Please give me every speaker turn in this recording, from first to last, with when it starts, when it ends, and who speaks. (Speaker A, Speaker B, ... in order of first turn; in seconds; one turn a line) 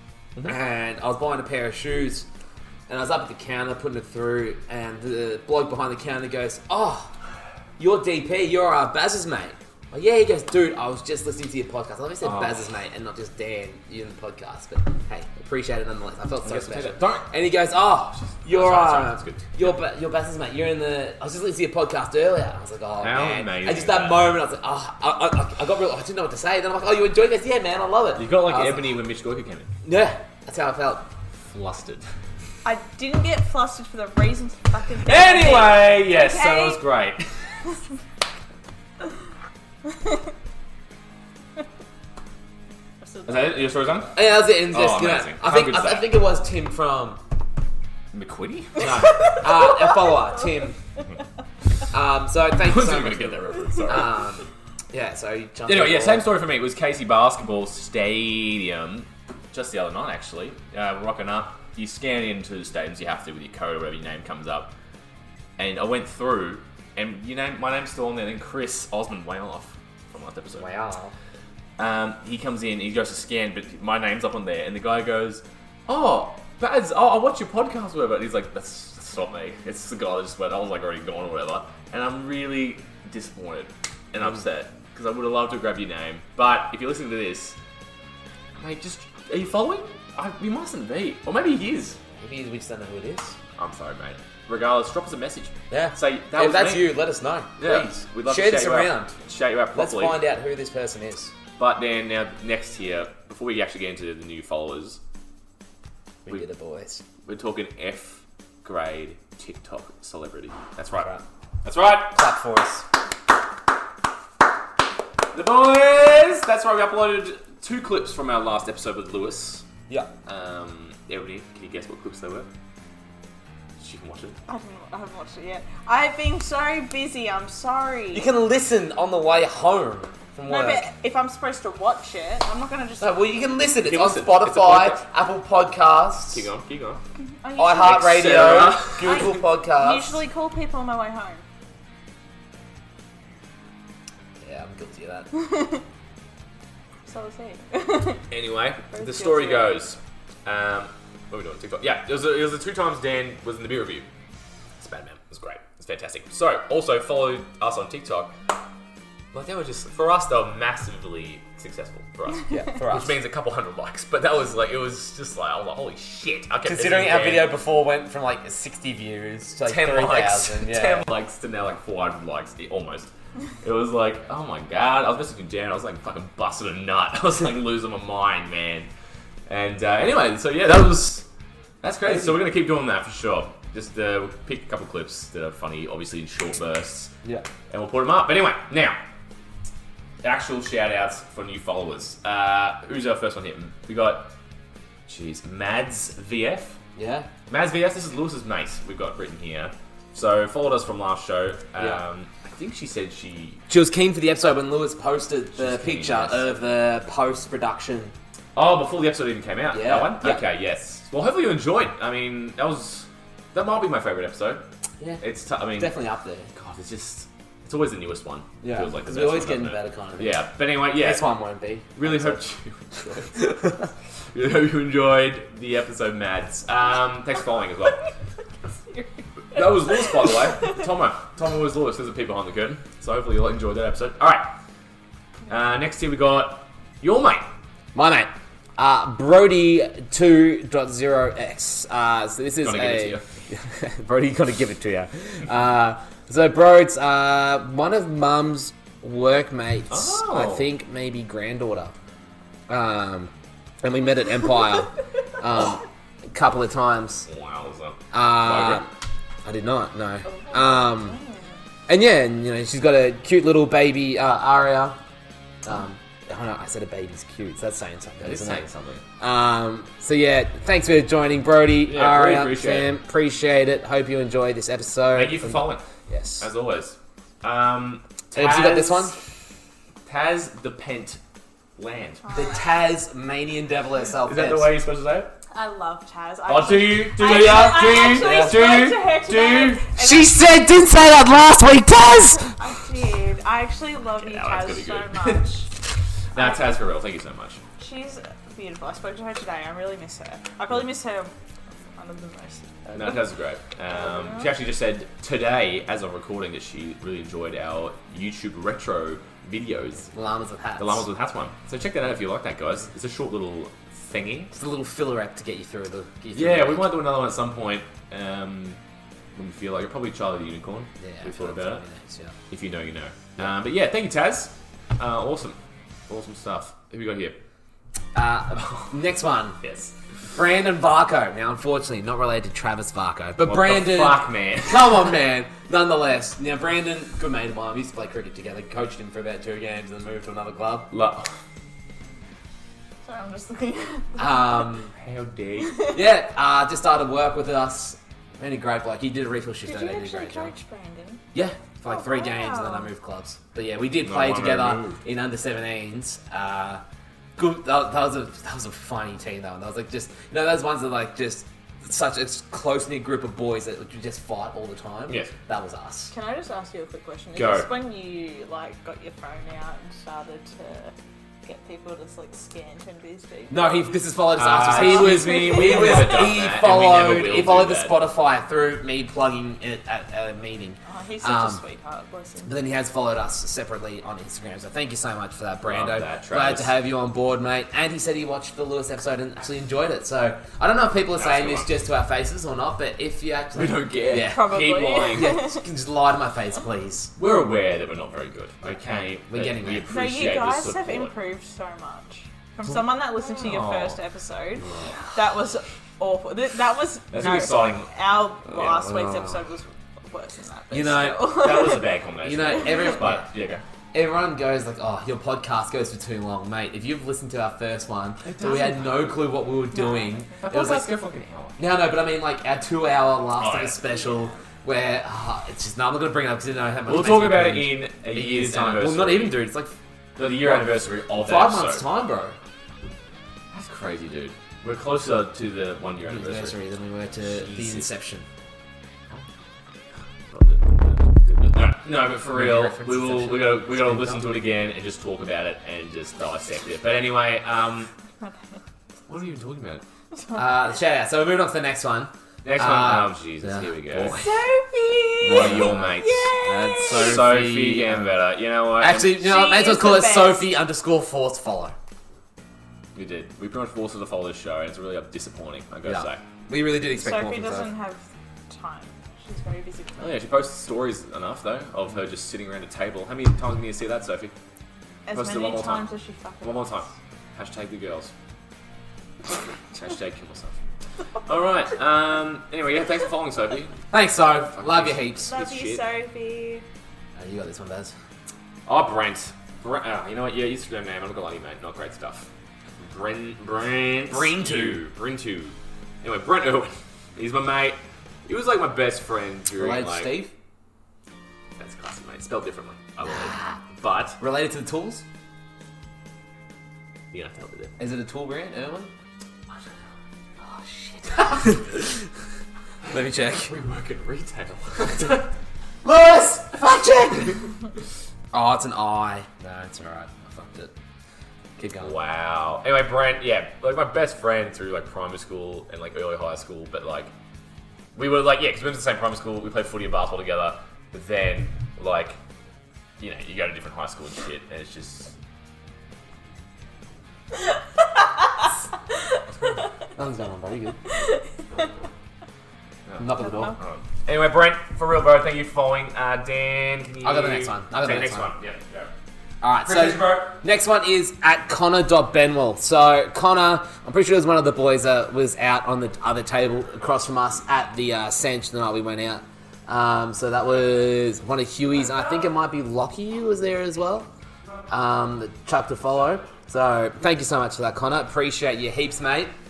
Speaker A: 0.4-2.3
Speaker A: 2.9-7.1
Speaker A: 7.8-28.9
Speaker B: 12.2-12.6
Speaker B: 16.4-17.3
Speaker B: 18.2-19.7
Speaker B: 23.0-24.4
Speaker B: 28.1-29.7
Speaker A: 29.8-31.1
Speaker B: 31.5-32.0
Speaker C: 32.6-36.8
Speaker B: 35.0-37.3
Speaker C: 43.0-43.7
Speaker B: 43.2-46.1
Speaker A: 44.1-47.2
Speaker B: 48.1-49.2
Speaker A: 48.8-50.8
Speaker C: 49.1-49.9
Speaker A: 51.9-56.3
Speaker B: 52.6-54.3
Speaker B: 55.6-64.7
Speaker B: 65.6-70.7
Speaker A: 70.5-71.1
Speaker B: 71.8-87.6
Speaker B: 88.6-92.0
Speaker A: 92.2-93.4
Speaker B: 93.6-97.0
Speaker A: 95.7-99.1
Speaker B: 97.6-100.2
Speaker A: 99.7-101.3
Speaker B: 101.6-105.0
Speaker A: 106.2-107.0
Speaker B: 107.2-111.1
Speaker A: 111.0-111.2
Speaker B: 111.6-112.2
Speaker A: 112.1-112.8
Speaker B: 115.3-119.7
Speaker B: 120.2-122.5
Speaker B: 123.8-124.4
Speaker C: 124.5-128.3
Speaker A: 128.1-130.9
Speaker C: 130.4-133.2
Speaker A: 133.0-136.5
Speaker B: 133.8-135.0
Speaker B: 136.3-137.0
Speaker C: 137.4-138.5
Speaker A: 137.6-140.2
Speaker B: 137.8-139.3
Speaker C: 139.0-141.4
Speaker A: 144.4-145.3
Speaker C: 145.5-145.8
Speaker C: 147.1-148.2
Speaker B: 148.3-154.1
Speaker C: 148.9-149.8
Speaker B: 154.8-158.3
Speaker B: 159.3-167.5
Speaker A: 162.5-163.1
Speaker A: 166.6-171.1
Speaker B: 169.7-173.1
Speaker B: 173.6-178.9
Speaker B: 179.5-181.2
Speaker B: 181.8-187.1
Speaker A: 182.0-182.4
Speaker B: 187.7-189.0
Speaker B: 190.2-194.3
Speaker B: 195.1-196.8
Speaker A: 196.9-197.3
Speaker B: 197.5-203.6
Speaker A: 203.7-208.1
Speaker B: 205.5-206.5
Speaker B: 208.5-214.6
Speaker A: 209.7-210.5
Speaker B: 215.2-215.9
Speaker A: 215.8-216.5
Speaker B: 216.5-221.2
Speaker A: 218.6-222.4
Speaker B: 221.9-223.6
Speaker A: 222.9-223.8
Speaker B: 224.3-228.0
Speaker C: 228.9-230.7
Speaker B: 229.5-234.5
Speaker B: 235.5-237.5
Speaker A: 237.9-251.9
Speaker B: 242.6-243.2
Speaker B: 249.9-250.7
Speaker A: 252.7-253.3
Speaker A: 253.8-257.3
Speaker B: 257.3-258.8
Speaker A: 258.1-258.9
Speaker A: 259.4-261.2
Speaker C: 260.2-261.6
Speaker A: 261.9-265.0
Speaker A: 265.6-268.6
Speaker B: 268.2-269.0
Speaker A: 269.2-276.5
Speaker B: 271.8-272.9
Speaker B: 275.1-275.8
Speaker B: 276.4-279.2
Speaker A: 278.3-279.1
Speaker B: 280.1-281.2
Speaker B: 281.8-282.2
Speaker C: 282.2-282.6
Speaker A: 282.3-284.7
Speaker B: 284.2-285.3
Speaker C: 285.5-290.5
Speaker B: 286.5-289.8
Speaker A: 287.3-288.6
Speaker A: 290.0-292.6
Speaker C: 292.6-295.7
Speaker B: 294.2-295.4
Speaker B: 296.3-297.6
Speaker C: 296.3-296.7
Speaker C: 297.8-301.3
Speaker C: 301.9-303.1
Speaker B: 302.9-310.1
Speaker C: 303.9-304.5
Speaker A: 310.1-311.1
Speaker B: 310.8-314.5
Speaker A: 314.5-316.9
Speaker B: 316.3-318.8
Speaker B: 319.3-321.8
Speaker A: 321.0-322.4
Speaker B: 322.5-327.4
Speaker A: 328.1-329.6
Speaker B: 328.6-328.9
Speaker B: 329.6-329.9
Speaker A: 330.3-340.9
Speaker B: 333.4-335.0
Speaker B: 340.9-341.3
Speaker C: 343.0-344.6
Speaker A: 344.2-344.9
Speaker B: 344.9-345.8
Speaker A: 345.9-350.5
Speaker C: 349.6-351.2
Speaker A: 351.3-356.8
Speaker C: 351.9-352.9
Speaker B: 354.0-355.0
Speaker A: 357.4-366.1
Speaker C: 366.1-370.9
Speaker B: 367.3-367.7
Speaker C: 371.4-373.9
Speaker A: 373.5-381.6
Speaker B: 374.3-378.0
Speaker C: 374.6-376.3
Speaker C: 380.9-382.5
Speaker A: 382.4-394.5
Speaker B: 385.6-386.7
Speaker B: 391.1-391.7
Speaker B: 393.5-395.4
Speaker C: 394.1-395.6
Speaker A: 395.1-397.1
Speaker B: 397.2-401.1
Speaker A: 399.3-399.9
Speaker C: 399.9-411.9
Speaker B: 403.4-404.0
Speaker A: 404.7-404.9
Speaker B: 407.1-407.9
Speaker B: 408.5-408.9
Speaker A: 410.7-411.4
Speaker B: 411.3-413.6
Speaker A: 412.2-413.2
Speaker C: 412.6-412.9
Speaker A: 413.9-420.9
Speaker B: 418.2-419.3
Speaker C: 419.7-420.4
Speaker B: 420.4-421.6
Speaker A: 421.6-429.7
Speaker B: 423.4-424.0
Speaker B: 426.9-429.5
Speaker B: 430.1-431.8
Speaker A: 431.1-432.4
Speaker B: 433.5-436.6
Speaker A: 436.1-438.2
Speaker B: 437.2-437.9
Speaker B: 440.3-447.9
Speaker A: 442.3-444.2
Speaker C: 448.2-448.6
Speaker B: 449.1-449.8
Speaker C: 450.1-450.6
Speaker A: 450.3-454.4
Speaker B: 452.4-454.3
Speaker C: 454.2-457.2
Speaker A: 455.2-458.2
Speaker B: 455.2-456.3
Speaker B: 456.9-459.2
Speaker A: 458.8-461.7
Speaker C: 459.1-460.5
Speaker B: 462.9-466.2
Speaker A: 465.8-467.7
Speaker C: 466.9-470.2
Speaker B: 470.0-474.3
Speaker C: 475.1-476.9
Speaker B: 475.1-475.9
Speaker B: 476.4-478.1
Speaker B: 479.7-480.6
Speaker B: 481.2-483.7
Speaker A: 483.9-485.4
Speaker B: 484.6-485.8
Speaker C: 485.2-486.6
Speaker A: 487.1-487.9
Speaker B: 488.6-492.3
Speaker B: 492.8-500.1
Speaker A: 494.1-494.8
Speaker A: 499.5-500.3
Speaker B: 501.6-504.2
Speaker A: 503.0-503.6
Speaker A: 504.2-505.0
Speaker B: 507.1-507.8
Speaker A: 507.8-508.9
Speaker A: 511.0-512.0
Speaker A: 512.9-513.5
Speaker B: 513.4-515.3
Speaker A: 515.8-517.4
Speaker A: 518.3-520.7
Speaker A: 521.6-521.9
Speaker B: 521.8-527.1
Speaker B: 527.9-532.2
Speaker B: 533.0-535.1
Speaker A: 540.0-540.8
Speaker B: 542.9-548.9
Speaker A: 543.0-543.5
Speaker C: 543.2-543.5
Speaker A: 547.0-548.3
Speaker A: 549.4-564.1
Speaker B: 549.6-550.3
Speaker A: 564.7-569.3